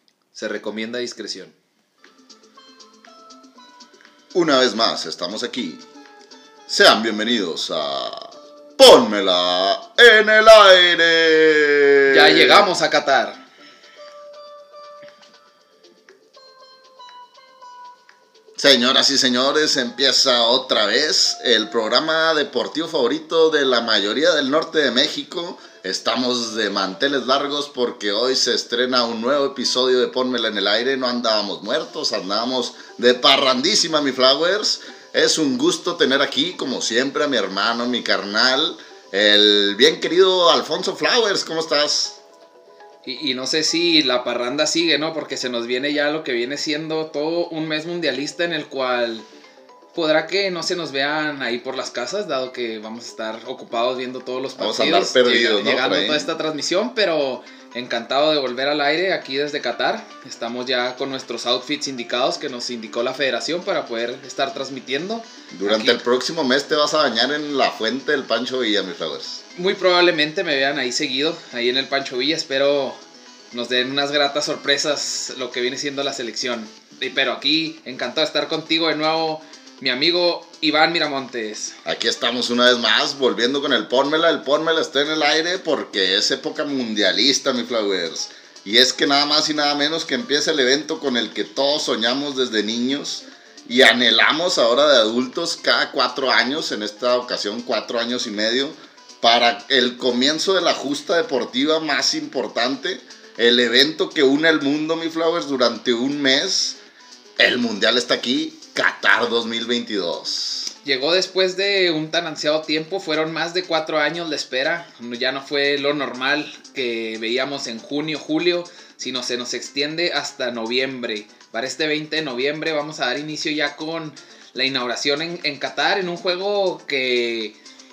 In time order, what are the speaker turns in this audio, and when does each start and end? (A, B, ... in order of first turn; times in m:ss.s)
0:00.3-0:01.5 A
0:04.3-0:05.8 B
0:06.7-0:12.7 B
0:12.1-0:13.4 A
0:18.6-0:42.2 B
0:43.0-0:49.3 A
0:49.9-1:06.0 A
0:54.6-0:56.3 B
1:05.5-1:09.4 B
1:09.5-1:13.0 A
1:13.5-1:21.8 A
1:21.8-1:46.8 B
1:47.4-1:50.7 B
1:50.8-2:07.6 A